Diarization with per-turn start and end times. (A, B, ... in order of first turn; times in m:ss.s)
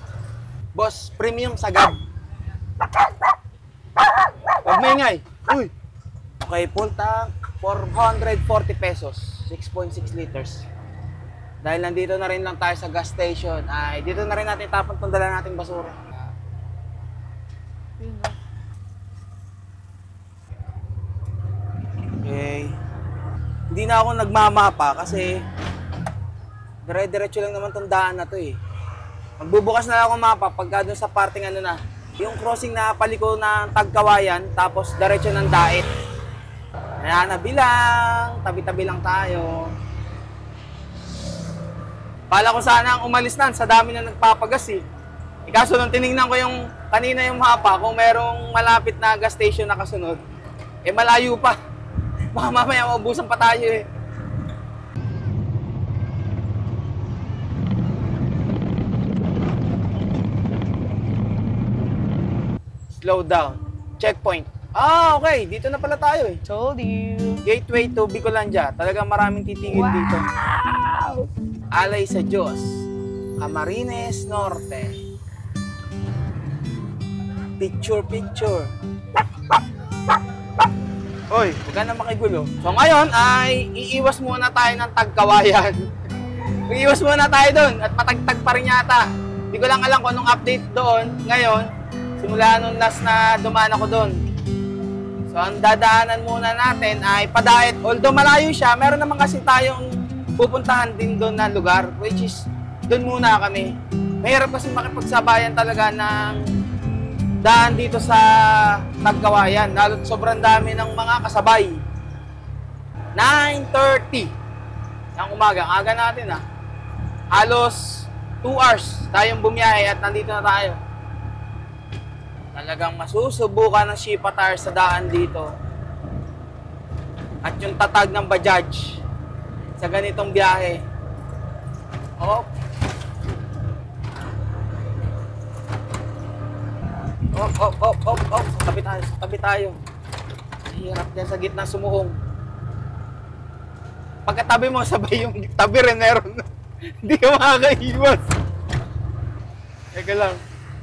0:00.8-0:02.0 A
0:04.6-0:05.7 A
0:06.4-0:10.6 A
0:11.6-0:16.1 A
0:18.0-0:18.3 B
0:22.2-0:22.8 A
0:23.7-0:25.4 A
0:26.8-0:28.6 A
0:29.4-0:35.9 A
0:37.0-0:39.7 A
0:42.3-0:44.8 A
0:45.5-0:50.2 A
0:50.9-0:51.6 A
0:52.3-0:53.8 A
1:02.9-1:06.4 A
1:06.5-1:07.4 B
1:07.5-1:10.2 A
1:09.7-1:10.1 B
1:10.6-1:11.3 B
1:11.7-1:12.7 A
1:13.4-1:15.0 A
1:17.6-1:18.7 A
1:21.3-1:25.8 A
1:26.7-1:31.7 A
1:32.2-1:34.1 A
1:35.3-1:39.9 A
1:40.4-1:46.4 A
1:47.4-1:51.8 A
1:53.2-1:54.3 A
1:55.2-1:56.4 A
1:57.3-2:00.8 A
2:02.5-2:05.5 A
2:07.4-2:09.0 A
2:09.8-2:10.8 A
2:12.2-2:12.5 A
2:17.3-2:19.8 A
2:20.7-2:22.1 A
2:24.3-2:26.5 A
2:27.0-2:28.2 A
2:29.9-2:30.4 A